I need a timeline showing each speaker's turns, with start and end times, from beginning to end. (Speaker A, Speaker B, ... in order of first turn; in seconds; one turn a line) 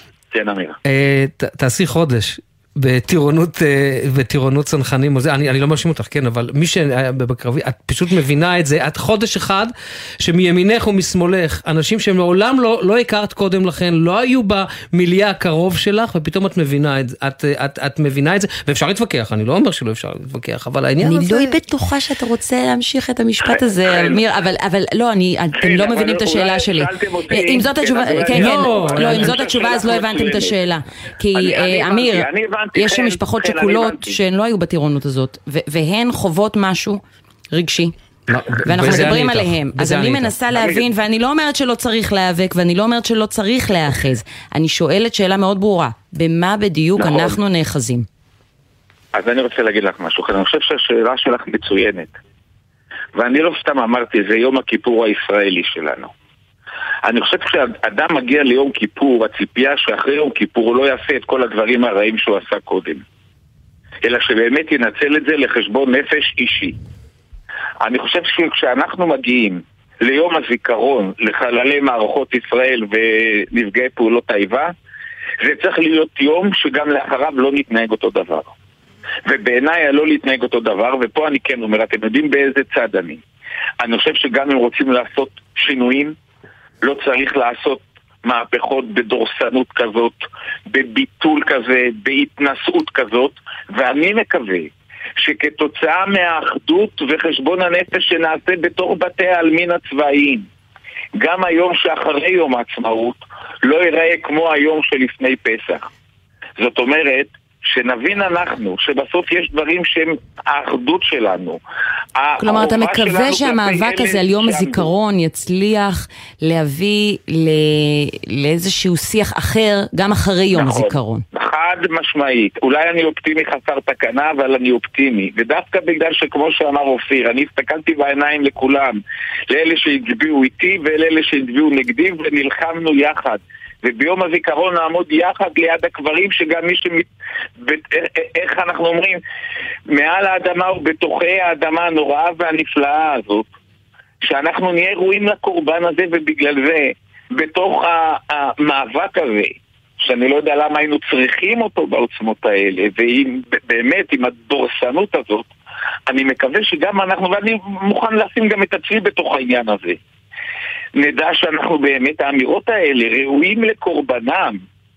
Speaker A: 0.3-0.8
Speaker B: 0.9-21.4
Speaker C: 21.0-37.9
Speaker A: 23.5-24.2
Speaker A: 25.6-30.6
Speaker B: 28.3-29.4
Speaker A: 31.3-34.2
Speaker B: 38.3-40.3
Speaker C: 38.6-48.1
Speaker A: 47.0-47.4
Speaker A: 49.1-52.1
Speaker A: 53.1-56.1
Speaker A: 57.0-63.0
Speaker A: 64.0-66.8
Speaker A: 67.8-74.7
Speaker A: 75.4-78.5
Speaker A: 79.2-83.2
Speaker A: 83.8-86.1
Speaker A: 86.8-100.5
Speaker A: 101.2-105.9
Speaker A: 106.6-111.6
Speaker A: 112.2-114.9
Speaker C: 112.4-121.2
Speaker A: 120.5-129.0
Speaker A: 129.5-137.1
Speaker A: 137.6-139.2
Speaker A: 139.9-143.5
Speaker A: 144.2-155.5
Speaker A: 156.1-160.0
Speaker A: 161.0-164.6